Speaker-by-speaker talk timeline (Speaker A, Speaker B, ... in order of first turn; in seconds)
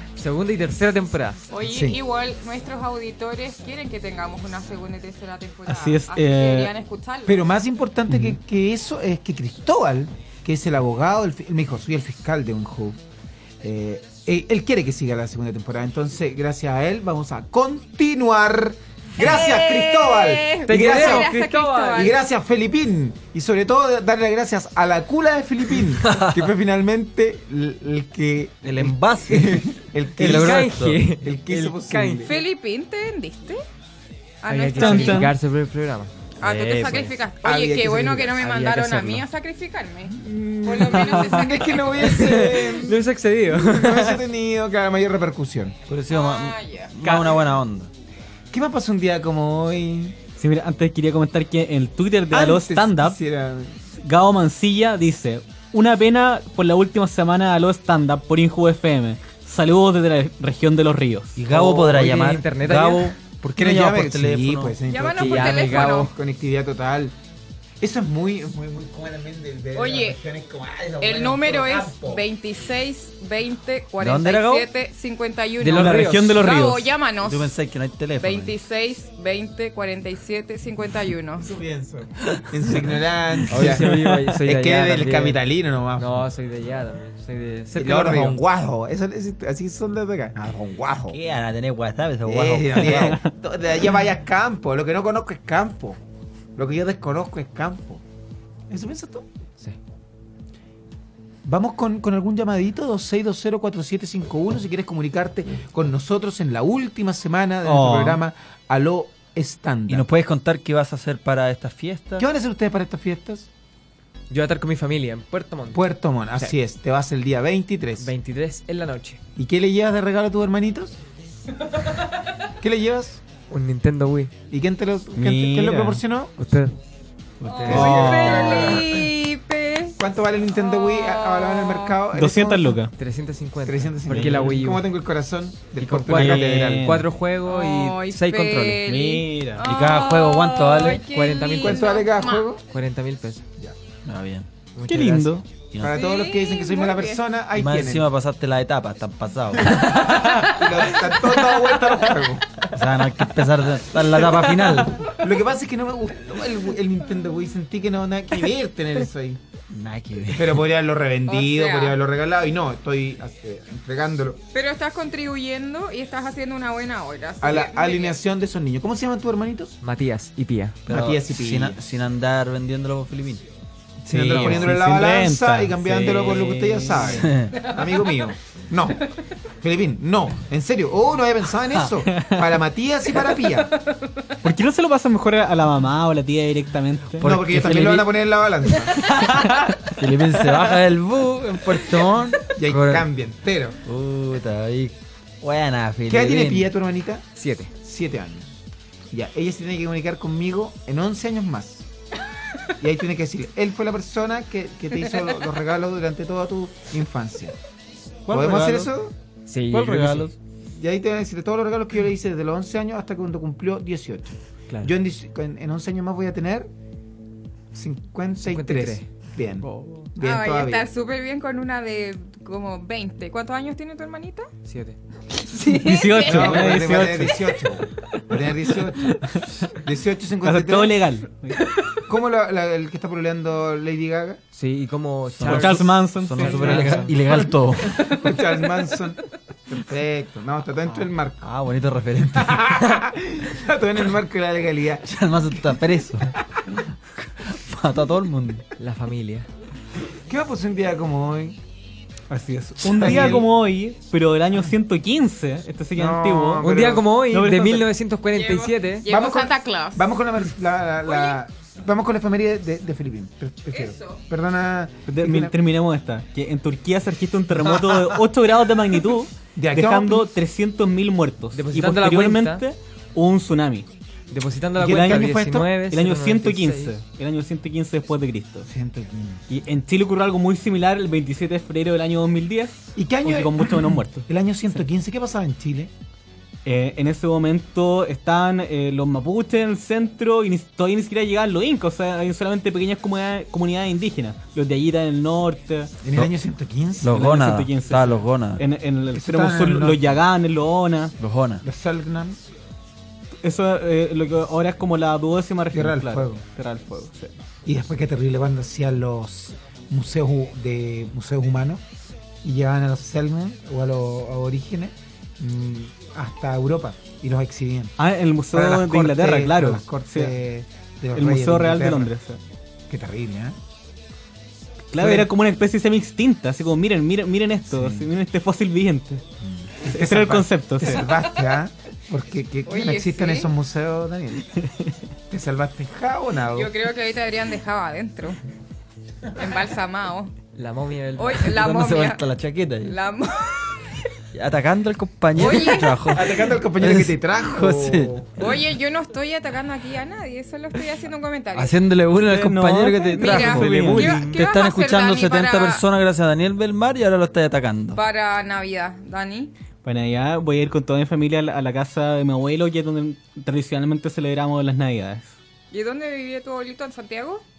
Speaker A: 0.1-1.4, 19.3-19.6, 20.6-22.1, 30.2-32.3, 34.5-36.1, 38.4-39.2, 42.0-44.2, 47.0-47.4, 61.5-63.1, 65.2-66.1, 75.6-76.3, 83.5-85.4, 86.0-88.4, 114.3-116.5, 118.0-119.2, 123.5-124.3, 126.4-126.7, 133.0-134.9, 135.8-138.8, 141.1-141.9, 142.7-143.4, 144.7-145.3, 169.8-170.8, 197.3-197.7, 209.5-210.3, 218.4-219.1, 219.6-220.1, 224.6-225.0, 234.5-237.4, 248.8-249.5, 256.6-259.1, 271.5-272.6, 274.3-276.9, 340.5-341.7
Speaker B: 1.5-7.4, 19.2-22.2, 32.2-33.6, 34.4-35.3, 36.4-41.8, 46.1-46.9, 64.9-66.1, 69.7-70.2, 71.0-77.5, 78.2-81.5, 127.5-130.0, 130.5-132.0, 137.4-142.4, 145.9-147.2, 161.3-162.0, 164.5-168.2, 220.2-224.5, 225.4-227.1, 258.3-260.1, 261.1-261.4, 263.7-264.2, 332.6-333.5, 336.5-338.4, 339.3-340.3, 341.2-342.2, 342.8-344.0, 345.3-346.2, 348.4-351.8, 353.1-355.8, 357.9-359.5, 365.7-367.4
Speaker C: 1.6-2.0, 7.2-13.0, 13.6-21.3, 21.9-32.4, 37.4-38.4, 40.2-45.8, 48.5-50.2, 52.3-53.8, 63.5-67.1, 67.8-72.2, 81.4-86.2, 87.7-91.2, 92.2-96.0, 96.5-98.0, 98.7-99.3, 101.4-110.0, 112.2-113.5, 115.7-118.1, 119.4-121.0, 122.6-123.2, 124.5-126.3, 127.6-129.1, 130.0-132.8, 133.6-136.9, 141.6-142.6, 145.8-148.1, 150.4-152.6, 155.1-159.4, 160.3-164.4, 167.4-169.8, 170.9-171.8, 174.1-179.1, 179.6-183.7, 187.2-189.1, 192.5-193.8, 196.1-197.2, 197.8-198.5, 199.1-201.9, 202.8-207.5, 208.3-209.1, 210.7-216.7, 217.7-220.9, 226.2-231.0, 232.1-234.4, 238.0-241.5, 242.3-245.1, 250.3-251.6, 252.8-253.5, 255.9-257.1, 259.1-265.5, 267.6-268.2, 269.5-270.3, 274.8-275.7, 278.7-279.4, 282.9-285.9, 296.0-297.1, 299.1-300.1, 301.6-302.4, 305.7-306.4, 307.6-311.8, 312.4-317.9, 318.5-322.1, 322.9-323.6, 325.0-325.3, 327.7-328.1, 329.4-334.5, 335.3-336.7, 346.1-348.4
Speaker D: 5.7-6.7, 34.8-35.3, 50.4-53.2, 54.0-61.4, 75.6-76.9, 107.6-108.2, 125.2-126.0, 127.6-128.8, 132.1-132.9, 136.1-137.1, 138.8-139.6, 144.9-145.4, 174.1-177.2, 182.1-182.4, 184.4-187.2, 189.3-189.6, 225.7-227.4, 229.0-229.7, 230.4-231.6, 235.4-237.0, 252.3-256.8, 257.3-257.9, 265.1-273.9, 274.8-278.7, 279.5-284.2, 286.6-295.9, 297.1-301.1, 303.4-307.3, 318.0-320.3, 321.1-322.4, 324.9-329.2, 329.8-331.1, 334.6-334.9, 352.2-354.4, 359.8-365.4
Speaker E: 26.1-26.4, 28.6-31.0, 36.4-37.1, 45.9-47.9, 61.4-64.8, 74.0-74.7, 77.2-78.5, 91.1-93.2, 109.9-112.3, 139.6-141.0, 144.1-144.5, 145.7-146.0, 147.5-149.9, 152.7-155.1, 159.7-160.6, 170.8-173.4, 174.1-174.7, 177.1-177.7, 187.2-188.1, 189.8-193.0, 193.8-196.7, 208.3-208.9, 209.7-210.3, 235.3-238.1, 241.4-243.0, 245.1-246.3, 247.2-248.6, 297.0-298.6, 301.2-301.6, 341.5-343.0, 344.3-348.1, 351.5-358.0